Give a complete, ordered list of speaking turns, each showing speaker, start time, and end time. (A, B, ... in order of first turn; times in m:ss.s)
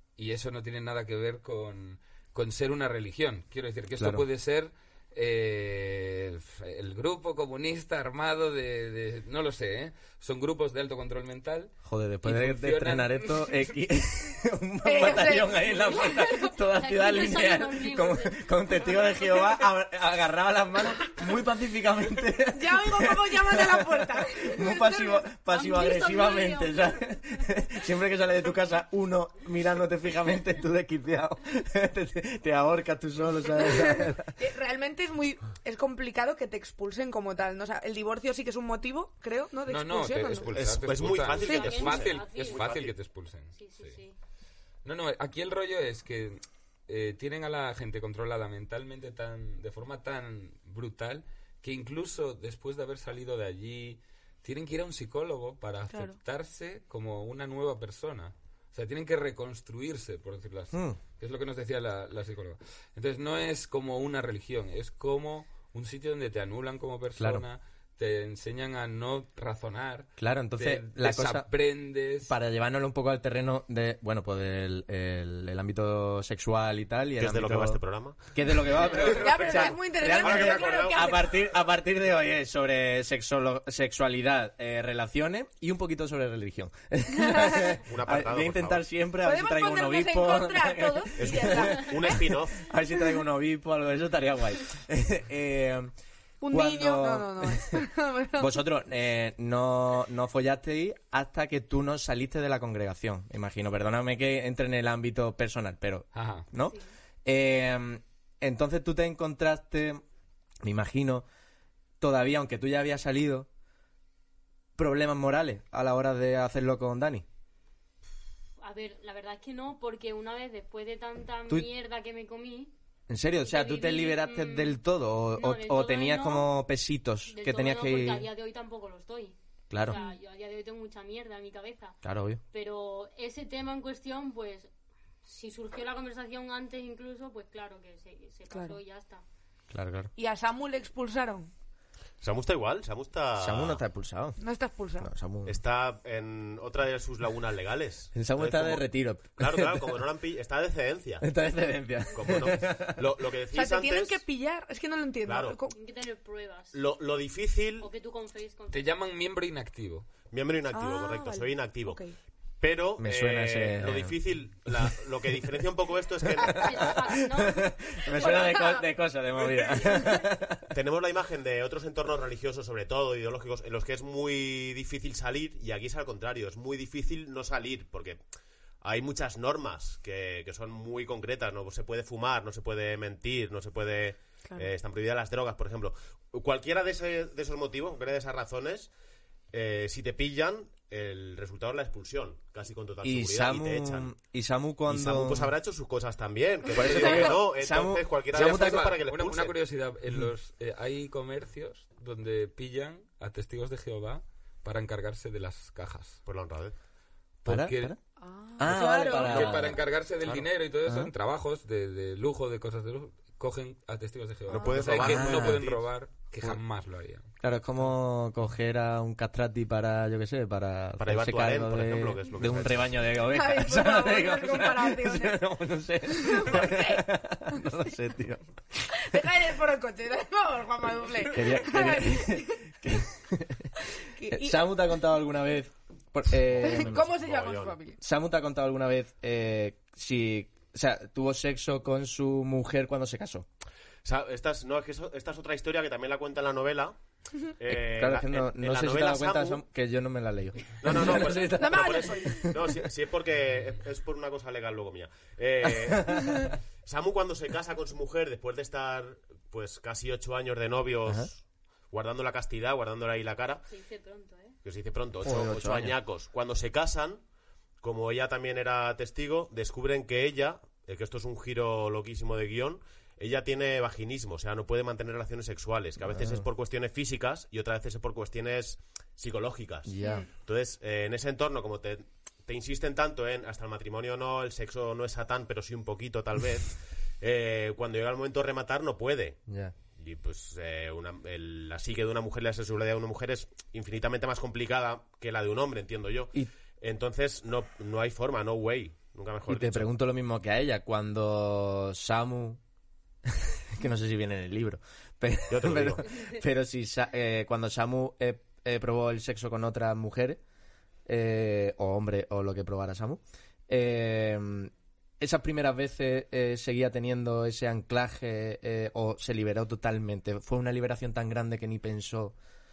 0:00.2-0:11.7 A
0:04.0-0:04.2 B
0:11.8-0:34.3 B
0:12.2-0:13.6 A
0:14.8-0:15.7 C
0:15.3-0:18.5 D
0:22.5-0:25.2 C
0:25.5-0:27.1 D
0:33.6-0:40.5 C
0:39.6-0:43.9 A
0:40.5-0:42.9 E
0:41.4-0:41.8 C
0:41.4-0:42.6 D
0:43.5-0:44.2 D
0:44.8-1:12.3 A
0:55.9-0:56.2 C
1:00.7-1:01.0 B
1:07.2-1:07.4 B
1:10.2-1:11.5 B
1:12.2-1:17.8 B
1:17.2-1:18.2 E
1:18.3-1:35.9 B
1:18.9-1:21.3 C
1:18.9-1:21.2 E
1:27.2-1:27.7 C
1:27.7-1:28.8 E
1:29.2-1:32.2 C
1:31.2-1:32.7 E
1:36.4-1:38.6 C
1:36.5-1:37.8 B
1:38.4-1:50.0 B
1:46.1-1:46.4 A
1:50.6-1:51.2 B
1:52.0-1:53.5 B
1:54.8-1:57.2 B
1:58.6-2:02.7 D
2:03.1-2:08.3 B
2:03.4-2:04.8 D
2:05.3-2:06.5 D
2:07.3-2:12.0 D
2:09.7-2:10.0 B
2:09.9-2:10.2 C
2:12.0-2:12.4 B
2:12.5-2:14.7 D
2:15.2-2:19.2 D
2:18.5-2:18.8 C
2:19.7-2:20.1 B
2:20.2-2:21.5 C
2:22.2-2:23.8 E
2:23.4-2:24.4 B
2:24.4-2:25.1 C
2:25.0-2:25.6 B
2:25.4-2:28.8 E
2:28.1-2:30.0 B
2:29.4-2:31.2 E
2:31.2-2:33.0 B
2:32.1-2:34.2 E
2:33.5-2:35.7 C
2:35.2-2:35.6 E
2:35.7-2:36.8 D
2:36.7-2:37.9 E
2:37.8-2:38.8 D
2:38.7-2:40.0 A
2:40.3-2:42.0 E
2:40.7-2:42.1 C
2:42.6-2:46.9 E
2:43.0-2:44.2 B
2:46.2-2:50.6 B
2:46.5-2:48.7 D
2:48.2-2:48.8 C
2:49.6-2:50.2 C
2:50.7-2:58.2 E
2:58.8-3:08.9 E
3:09.5-3:14.1 E
3:13.0-3:15.5 B
3:14.9-3:19.5 E
3:16.7-3:19.0 B
3:16.7-3:17.4 C
3:18.3-3:26.2 A
3:26.2-3:26.7 E
3:27.4-3:27.9 A
3:27.4-3:28.0 B
3:28.2-3:29.8 C
3:28.6-3:29.7 B
3:29.0-3:37.2 A
3:29.2-3:30.5 E
3:30.8-3:31.1 B
3:34.5-3:35.8 E
3:34.5-3:34.9 C
3:35.0-3:35.7 B
3:37.4-3:49.2 B
3:41.0-3:43.0 E
3:43.2-3:45.4 C
3:46.1-3:47.0 C
3:48.9-3:52.7 C
3:51.2-3:53.7 B
3:54.2-3:54.7 C
3:54.3-3:57.0 B
3:56.5-3:58.0 C
3:56.7-3:57.8 E
3:58.0-4:03.4 B
4:04.0-4:07.0 E
4:07.6-4:09.6 E
4:07.7-4:12.8 B
4:10.8-4:23.6 E
4:11.5-4:12.5 C
4:15.9-4:16.4 B
4:23.7-4:24.6 D
4:24.6-4:27.2 E
4:25.2-4:26.0 B
4:27.8-4:49.4 E
4:36.0-4:36.5 B
4:39.8-4:40.2 B
4:40.0-4:40.3 C
4:49.5-4:49.7 B
4:50.0-4:59.9 E
4:59.5-5:02.6 B
5:03.2-5:10.4 B
5:05.5-5:06.1 E
5:11.0-5:22.4 B